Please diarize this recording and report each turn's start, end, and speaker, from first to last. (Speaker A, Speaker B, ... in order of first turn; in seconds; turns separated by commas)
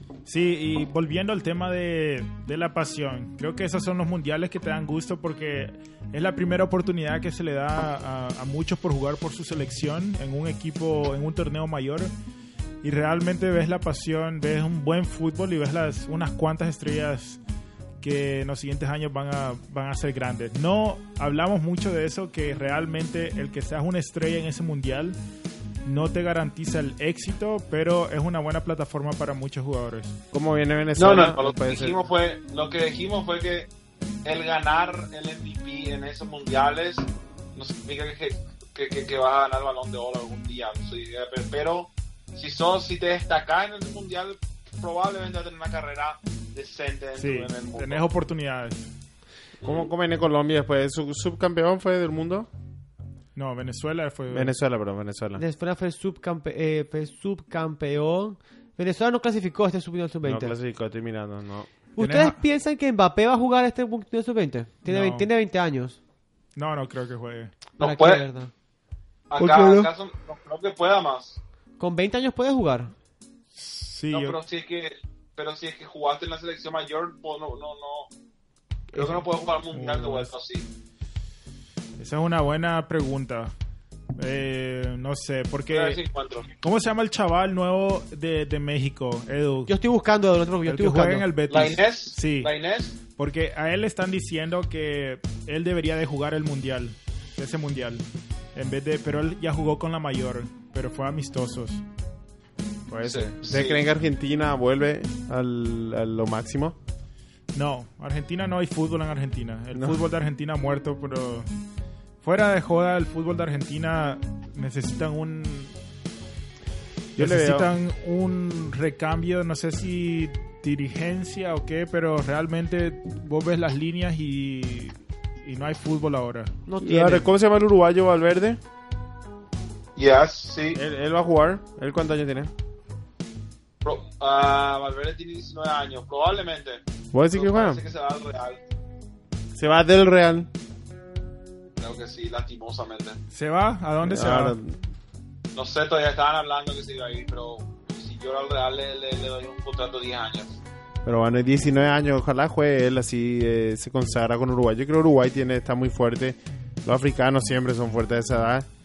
Speaker A: 0.3-12.1, Speaker A: 12.8-17.4, Speaker A: 18.0-25.2, Speaker A: 25.9-30.2, Speaker B: 30.3-32.0, Speaker C: 31.0-33.7, Speaker C: 34.2-48.0, Speaker A: 47.2-48.9, Speaker C: 49.6-49.9, Speaker B: 49.6-52.5, Speaker A: 53.4-54.5, Speaker B: 54.3-55.4, Speaker D: 55.4-60.5, Speaker B: 60.2-61.7, Speaker D: 62.0-66.0, Speaker A: 62.0-62.4, Speaker A: 64.9-65.3, Speaker A: 66.6-67.5, Speaker C: 67.8-68.2, Speaker D: 67.8-68.5, Speaker C: 69.3-71.4, Speaker B: 69.5-69.8, Speaker D: 71.8-72.9, Speaker A: 73.6-74.4, Speaker C: 74.1-78.1, Speaker A: 78.9-80.3, Speaker C: 78.9-80.7, Speaker A: 82.0-83.5, Speaker A: 84.2-86.0, Speaker C: 85.7-86.5, Speaker A: 86.6-89.7, Speaker D: 89.7-91.3, Speaker A: 90.7-92.5, Speaker C: 91.5-93.0, Speaker A: 93.1-98.0, Speaker A: 98.5-101.8, Speaker B: 102.9-106.8, Speaker C: 103.0-103.8, Speaker A: 107.5-111.5, Speaker B: 109.7-110.0, Speaker A: 112.2-115.7, Speaker B: 117.2-117.7, Speaker A: 117.2-126.5, Speaker D: 126.7-127.3, Speaker B: 126.8-128.6, Speaker C: 130.0-130.8, Speaker B: 130.8-132.5, Speaker C: 133.8-136.8, Speaker B: 137.1-137.8, Speaker C: 137.3-138.6, Speaker B: 139.6-140.5, Speaker C: 141.8-143.2, Speaker A: 143.3-144.6, Speaker B: 144.0-144.8, Speaker C: 145.6-150.6, Speaker B: 151.0-158.7